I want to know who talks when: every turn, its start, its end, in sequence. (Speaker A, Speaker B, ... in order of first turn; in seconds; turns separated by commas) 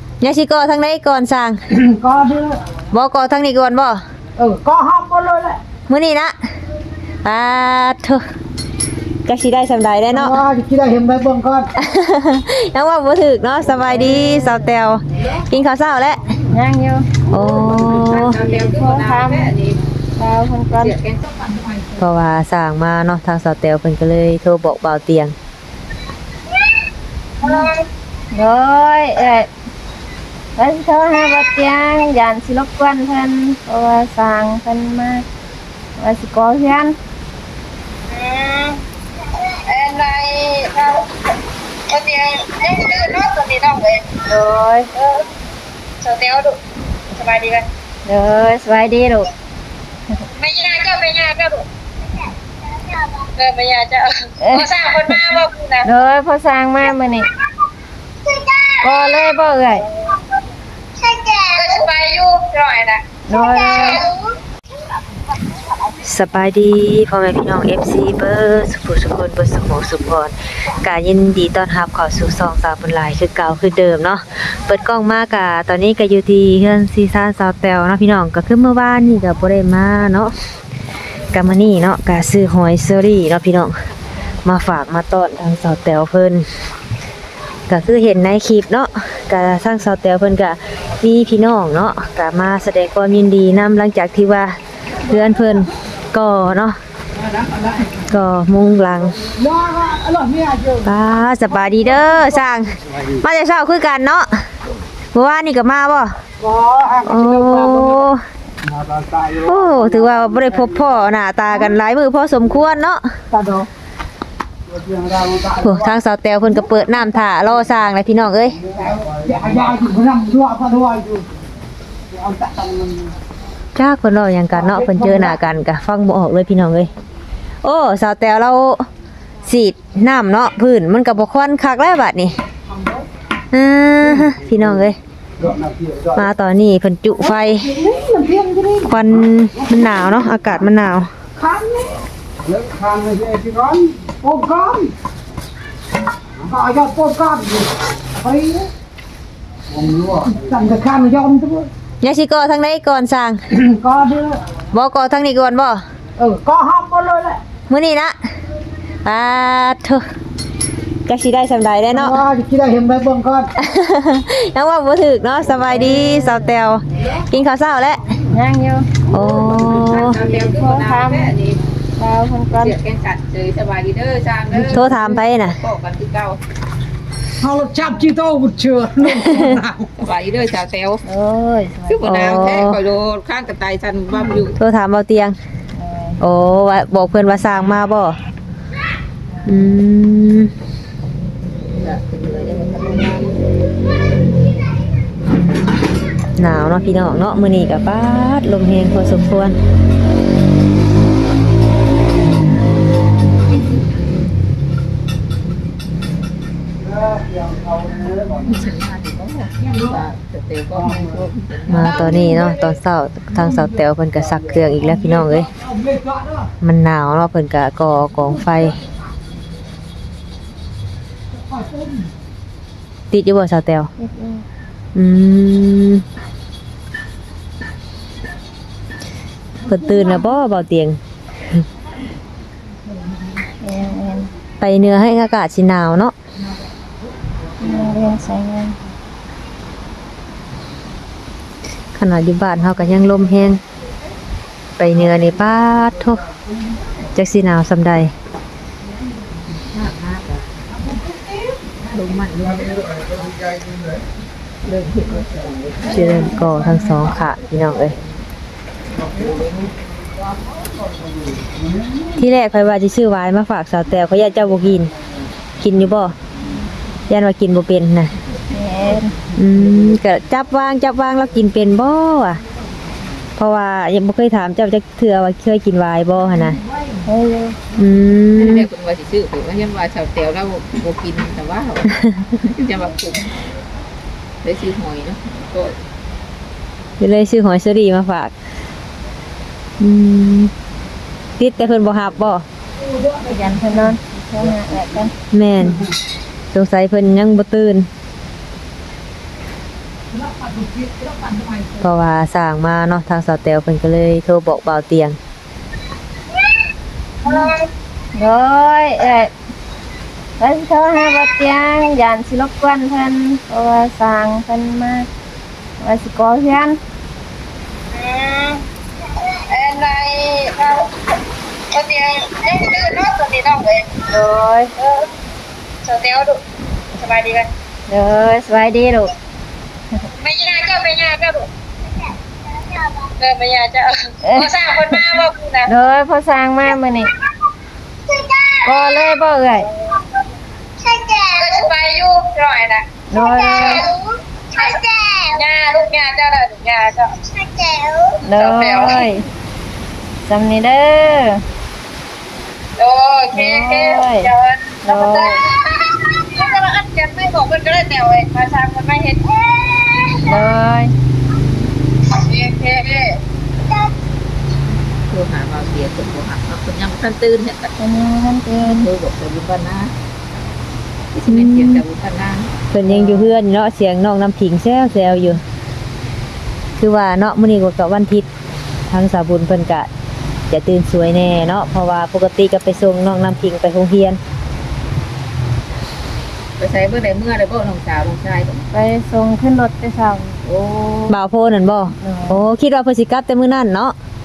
Speaker A: 0.2-1.6, Speaker B: 1.7-2.6, Speaker A: 2.9-4.0, Speaker B: 4.4-5.6, Speaker A: 5.9-6.3, Speaker A: 7.2-8.2, Speaker A: 9.2-10.4, Speaker B: 10.1-11.7, Speaker A: 11.8-16.2, Speaker C: 13.9-14.5, Speaker C: 16.5-17.1, Speaker A: 17.3-18.4, Speaker D: 17.7-19.8, Speaker C: 18.3-19.5, Speaker C: 20.2-20.9, Speaker D: 20.8-21.5, Speaker A: 22.0-25.3, Speaker E: 27.4-27.9, Speaker C: 27.4-27.7, Speaker C: 28.3-29.5, Speaker C: 30.6-35.2, Speaker C: 36.0-37.0, Speaker E: 38.1-38.8, Speaker E: 39.4-41.1, Speaker E: 41.9-44.1, Speaker C: 44.3-44.9, Speaker E: 44.9-45.3, Speaker E: 46.0-46.6, Speaker E: 47.1-47.6, Speaker C: 48.0-49.3, Speaker E: 50.4-51.6, Speaker E: 52.9-55.9, Speaker C: 54.4-55.2, Speaker C: 55.8-57.3, Speaker E: 58.2-59.0, Speaker C: 58.8-59.9, Speaker E: 61.0-64.2, Speaker C: 63.3-64.0, Speaker A: 66.0-80.3, Speaker A: 81.3-83.8, Speaker A: 84.4-86.5, Speaker A: 87.7-96.8, Speaker B: 97.4-97.8, Speaker A: 98.1-99.2, Speaker B: 99.3-100.9, Speaker A: 100.8-104.4, Speaker B: 101.5-102.4, Speaker A: 105.1-106.2, Speaker B: 106.4-108.1, Speaker A: 107.0-108.2, Speaker B: 108.6-110.4, Speaker A: 109.5-113.1, Speaker B: 111.5-111.8, Speaker B: 113.3-113.7, Speaker B: 114.7-116.0, Speaker A: 115.6-118.6, Speaker B: 118.5-121.2, Speaker B: 122.1-123.1, Speaker A: 123.8-126.9, Speaker B: 124.5-125.4, Speaker A: 127.6-128.9, Speaker A: 129.4-132.3, Speaker B: 132.7-133.0, Speaker A: 133.5-135.0, Speaker B: 135.4-136.3, Speaker A: 136.2-137.7, Speaker B: 137.2-139.0, Speaker A: 138.9-141.1, Speaker B: 139.5-140.2, Speaker B: 141.3-144.9, Speaker B: 146.4-148.7, Speaker B: 149.7-151.7, Speaker A: 152.0-153.4, Speaker B: 153.5-154.4, Speaker A: 154.7-155.8, Speaker B: 156.2-157.4, Speaker A: 157.7-158.1, Speaker A: 159.0-160.0, Speaker A: 161.1-162.2, Speaker B: 161.9-163.5, Speaker A: 163.6-168.0, Speaker C: 165.7-166.4, Speaker C: 168.3-168.9, Speaker A: 169.1-170.2, Speaker D: 169.2-171.6, Speaker C: 170.0-171.3, Speaker C: 172.0-172.8, Speaker D: 172.6-176.4, Speaker A: 174.7-175.6, Speaker B: 177.4-179.9, Speaker D: 180.0-181.0, Speaker C: 181.0-182.2, Speaker D: 181.9-184.6, Speaker A: 182.1-182.8, Speaker A: 184.6-185.4, Speaker C: 185.7-186.2, Speaker A: 186.2-188.2, Speaker A: 189.4-190.5, Speaker D: 191.7-193.4, Speaker A: 196.4-199.6, Speaker B: 206.8-208.4, Speaker D: 208.4-212.3, Speaker A: 211.7-215.5, Speaker B: 215.5-216.4, Speaker A: 216.6-218.8, Speaker A: 223.1-223.9, Speaker C: 224.0-224.4, Speaker A: 224.9-226.0, Speaker A: 229.7-231.0, Speaker C: 233.6-234.3, Speaker A: 234.6-236.1, Speaker C: 237.6-238.8, Speaker A: 241.9-243.6, Speaker A: 244.8-246.2, Speaker A: 247.1-248.1, Speaker D: 249.5-250.5, Speaker D: 251.8-252.9, Speaker D: 254.6-256.4, Speaker A: 255.8-258.0, Speaker D: 259.1-259.6, Speaker A: 262.2-264.9, Speaker A: 265.6-266.1, Speaker A: 267.1-268.1, Speaker C: 268.5-269.1, Speaker A: 269.3-272.4, Speaker A: 273.4-276.6, Speaker C: 277.1-277.6, Speaker A: 277.8-278.7, Speaker D: 278.3-283.3, Speaker D: 284.4-285.8, Speaker A: 287.0-288.3, Speaker A: 289.8-290.5, Speaker A: 291.4-292.4, Speaker C: 293.2-295.1, Speaker A: 295.3-295.8, Speaker A: 296.5-297.9, Speaker B: 300.3-301.7, Speaker A: 301.8-305.2, Speaker E: 307.2-307.7, Speaker C: 307.2-307.5, Speaker C: 308.1-309.3, Speaker C: 310.4-315.1, Speaker C: 315.8-316.8, Speaker E: 317.9-318.6, Speaker E: 319.5-320.9, Speaker E: 321.7-323.9, Speaker C: 324.1-324.7, Speaker E: 324.8-325.1, Speaker E: 325.8-326.4, Speaker E: 326.9-327.5, Speaker C: 327.9-329.1, Speaker E: 330.2-331.5, Speaker E: 332.9-335.7, Speaker C: 334.2-335.0, Speaker C: 335.6-337.1, Speaker E: 338.1-338.9, Speaker C: 338.6-339.7, Speaker E: 340.8-349.1, Speaker C: 343.1-343.9, Speaker C: 348.2-349.2, Speaker C: 350.2-351.4, Speaker E: 352.8-360.3, Speaker C: 353.3-354.3, Speaker C: 354.8-355.4, Speaker C: 360.2-360.9, Speaker E: 362.1-363.2, Speaker D: 365.1-367.7, Speaker C: 367.8-368.9, Speaker D: 368.6-369.9, Speaker D: 371.1-373.3, Speaker A: 371.3-371.8, Speaker A: 372.7-375.4, Speaker A: 376.8-378.3, Speaker A: 378.9-379.9, Speaker A: 380.5-384.2, Speaker D: 386.6-388.6, Speaker C: 388.7-390.4, Speaker D: 390.4-391.1, Speaker A: 391.1-393.9, Speaker C: 392.0-392.4